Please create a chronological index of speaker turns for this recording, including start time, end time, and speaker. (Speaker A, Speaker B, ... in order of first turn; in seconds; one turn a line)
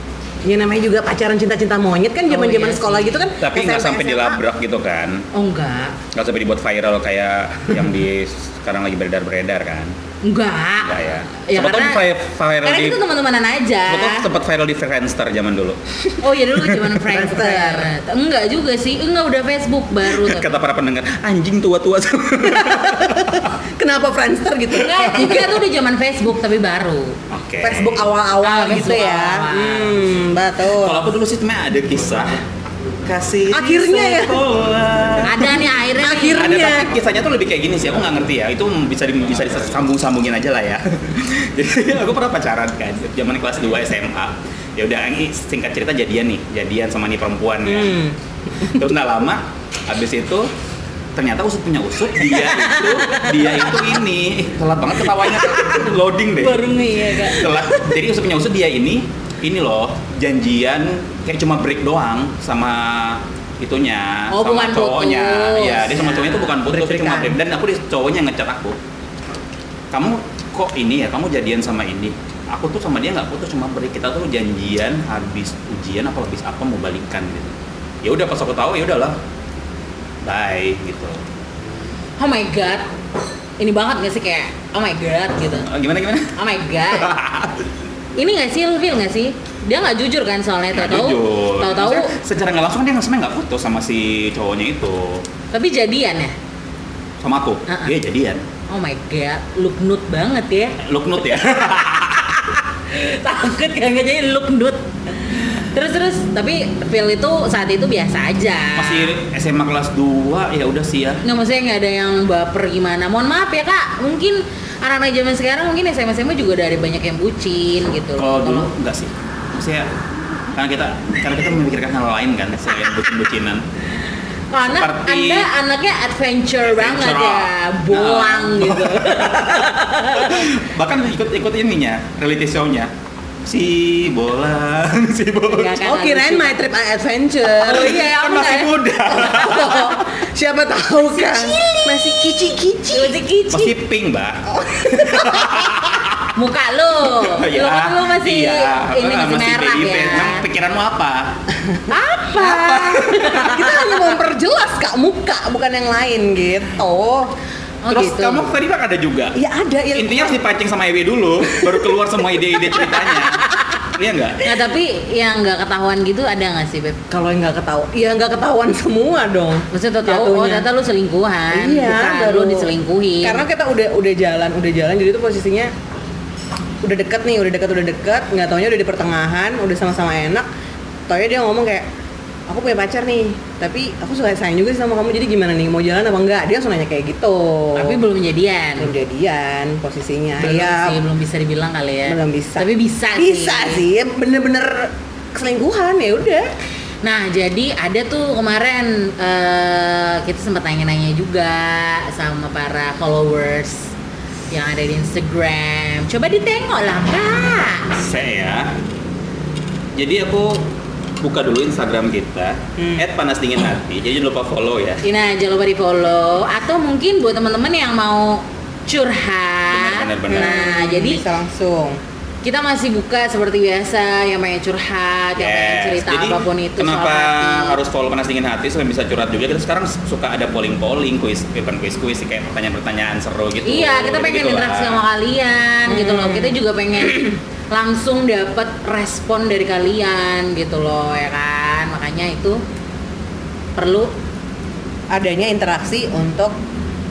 Speaker A: 0.4-4.4
Speaker B: 2.3-3.3
Speaker C: 3.4-5.2
Speaker B: 5.3-6.0
Speaker C: 6.1-9.9
Speaker B: 10.2-12.0
Speaker C: 10.8-13.0
Speaker B: 12.6-14.2
Speaker C: 13.9-16.6
Speaker B: 16.2-20.5
Speaker A: 17.0-17.9
Speaker C: 20.1-23.4
Speaker A: 22.5-25.5
Speaker B: 24.8-27.1
Speaker C: 27.3-28.1
Speaker A: 27.6-31.1
Speaker B: 28.4-30.0
Speaker C: 30.7-32.4
Speaker C: 33.0-35.6
Speaker A: 33.5-34.4
Speaker B: 35.2-36.6
Speaker A: 35.4-36.9
Speaker C: 36.2-48.0
Speaker A: 47.6-48.1
Speaker C: 48.6-50.5
Speaker C: 51.1-68.8
Speaker B: 52.8-53.7
Speaker B: 56.4-57.5
Speaker B: 64.3-66.5
Speaker A: 66.7-67.3
Speaker C: 69.9-79.2
Speaker C: 80.2-81.2
Speaker B: 82.2-82.9
Speaker B: 83.6-85.7
Speaker C: 85.6-86.3
Speaker B: 86.3-87.1
Speaker C: 86.9-87.7
Speaker B: 88.2-92.1
Speaker C: 90.7-95.2
Speaker B: 95.5-96.3
Speaker C: 97.2-98.4
Speaker B: 97.7-97.9
Speaker B: 98.7-100.8
Speaker C: 100.8-102.4
Speaker B: 102.9-109.1
Speaker C: 108.8-111.2
Speaker B: 111.2-118.7
Speaker C: 118.2-119.9
Speaker C: 120.5-123.6
Speaker B: 124.5-130.5
Speaker C: 124.7-125.5
Speaker C: 126.6-132.9
Speaker C: 133.4-135.8
Speaker B: 135.5-136.6
Speaker A: 135.8-138.1
Speaker B: 137.6-140.0
Speaker C: 137.8-139.8
Speaker A: 139.1-143.1
Speaker B: 141.1-142.3
Speaker B: 142.9-143.8
Speaker C: 143.5-146.3
Speaker A: 144.5-145.8
Speaker B: 146.3-150.4
Speaker C: 147.0-151.3
Speaker B: 151.9-153.9
Speaker A: 152.4-157.3
Speaker B: 157.8-158.5
Speaker C: 157.9-159.3
Speaker A: 159.3-160.4
Speaker C: 159.9-164.5
Speaker A: 162.7-163.2
Speaker B: 164.4-167.0
Speaker A: 167.1-170.7
Speaker B: 169.7-173.4
Speaker A: 171.5-172.7
Speaker A: 173.2-175.7
Speaker A: 176.8-180.5
Speaker A: 181.1-181.8
Speaker A: 182.5-188.0
Speaker B: 187.7-188.9
Speaker A: 188.8-191.0
Speaker B: 190.4-193.8
Speaker A: 192.1-196.5
Speaker B: 197.0-203.9
Speaker B: 204.5-207.8
Speaker C: 207.9-208.7
Speaker C: 209.9-210.6
Speaker C: 211.2-215.0
Speaker B: 215.0-221.2
Speaker C: 219.7-220.7
Speaker A: 220.3-222.0
Speaker B: 222.4-227.8
Speaker C: 225.4-235.0
Speaker B: 233.6-242.6
Speaker A: 235.9-236.6
Speaker B: 243.8-244.1
Speaker A: 245.1-246.5